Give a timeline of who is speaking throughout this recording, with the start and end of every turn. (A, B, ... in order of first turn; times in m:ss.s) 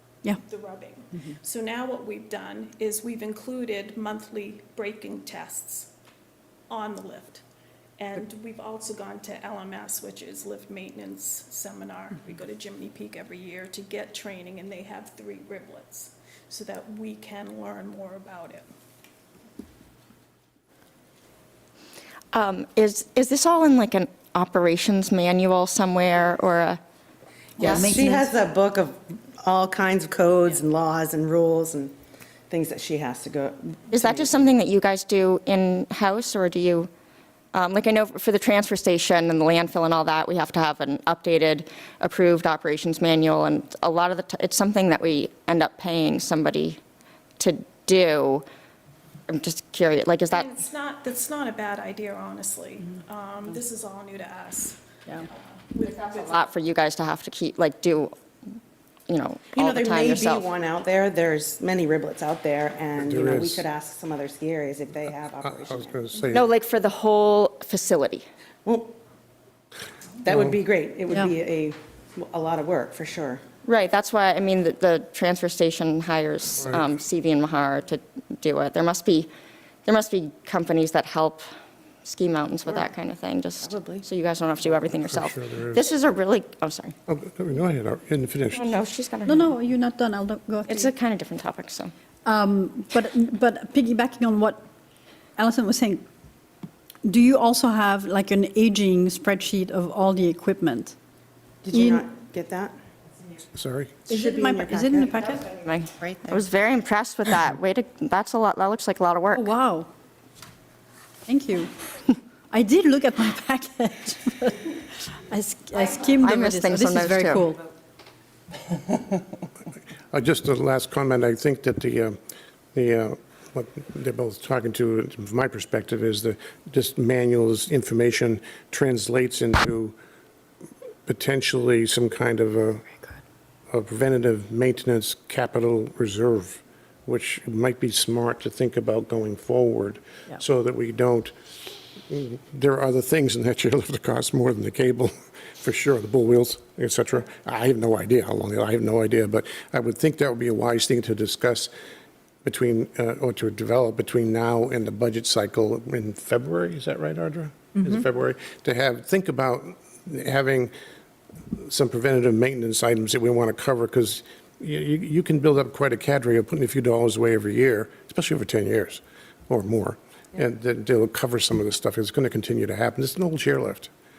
0:00.4-0:05.9 A
0:06.7-0:07.4 A
0:08.0-0:18.7 A
0:22.3-0:26.8 B
0:27.6-0:32.0 C
0:27.6-0:27.9 B
0:27.6-0:28.3 D
0:32.5-0:34.6 C
0:33.9-0:36.9 B
0:37.5-0:46.8 B
0:47.4-0:48.4 B
0:49.3-0:50.5 B
0:50.3-0:56.4 A
0:55.8-0:58.1 B
0:59.1-1:00.5 B
0:59.5-1:06.0 C
1:03.0-1:03.6 E
1:05.4-1:06.5 E
1:06.3-1:08.2 B
1:08.6-1:08.9 C
1:10.2-1:13.4 C
1:10.3-1:10.6 E
1:13.6-1:19.3 B
1:16.6-1:16.9 E
1:19.9-1:21.5 B
1:22.0-1:26.9 B
1:23.6-1:24.1 C
1:25.0-1:25.8 E
1:27.1-1:28.7 E
1:28.6-1:29.5 B
1:29.2-1:30.9 D
1:30.7-1:31.9 B
1:32.2-1:34.6 D
1:35.4-1:36.0 D
1:37.0-1:41.0 D
1:41.6-1:42.7 C
1:41.7-1:42.1 D
1:43.6-1:44.0 E
1:44.1-1:45.5 D
1:44.1-1:45.4 C
1:45.5-1:49.5 B
1:49.3-1:49.9 D
1:51.3-1:51.7 D
1:52.5-1:57.6 D
1:55.8-1:57.5 B
2:00.1-2:02.2 E
2:02.7-2:10.0 E
2:11.1-2:12.8 E
2:13.7-2:21.3 E
2:22.1-2:31.7 E
2:32.4-2:40.7 E
2:41.5-2:53.9 E